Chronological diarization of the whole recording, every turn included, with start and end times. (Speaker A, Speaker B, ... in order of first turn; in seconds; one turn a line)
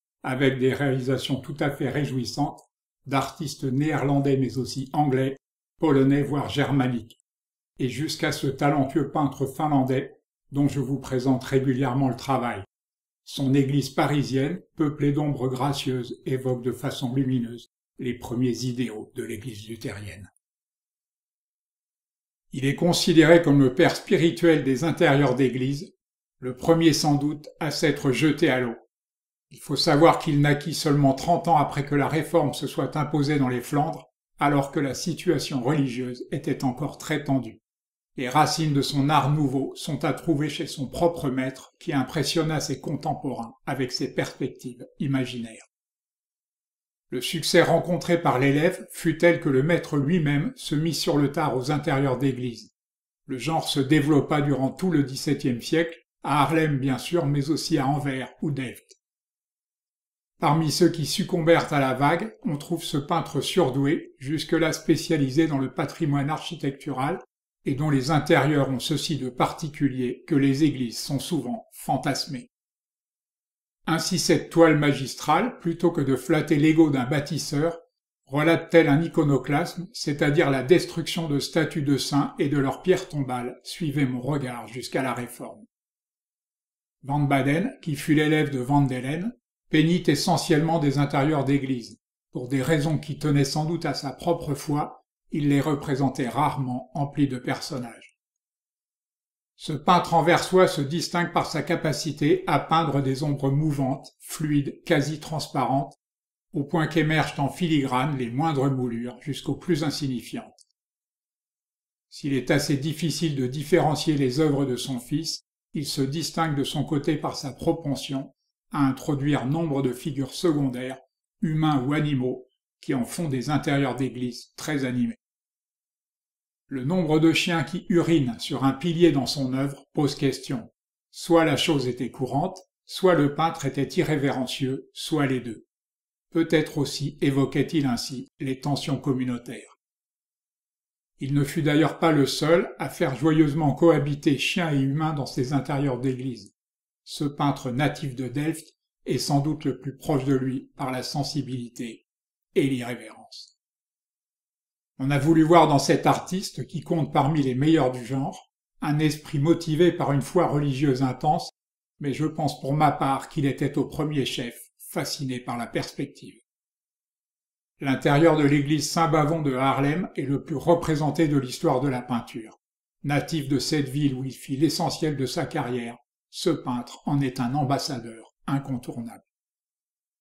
Speaker A: 0.2-7.2
Speaker A: 7.8-12.7
Speaker A: 13.2-20.3
Speaker A: 22.5-28.8
Speaker A: 29.5-37.6
Speaker A: 38.2-45.7
Speaker A: 47.1-52.7
Speaker A: 53.3-59.0
Speaker A: 60.4-72.5
Speaker A: 73.9-85.7
Speaker A: 87.0-98.2
Speaker A: 99.6-106.0
Speaker A: 106.5-110.6
Speaker A: 112.1-125.2
Speaker A: 126.7-135.7
Speaker A: 136.3-139.8
Speaker A: 141.2-146.5
Speaker A: 147.1-153.6
Speaker A: 155.0-166.4
Speaker A: 167.8-179.3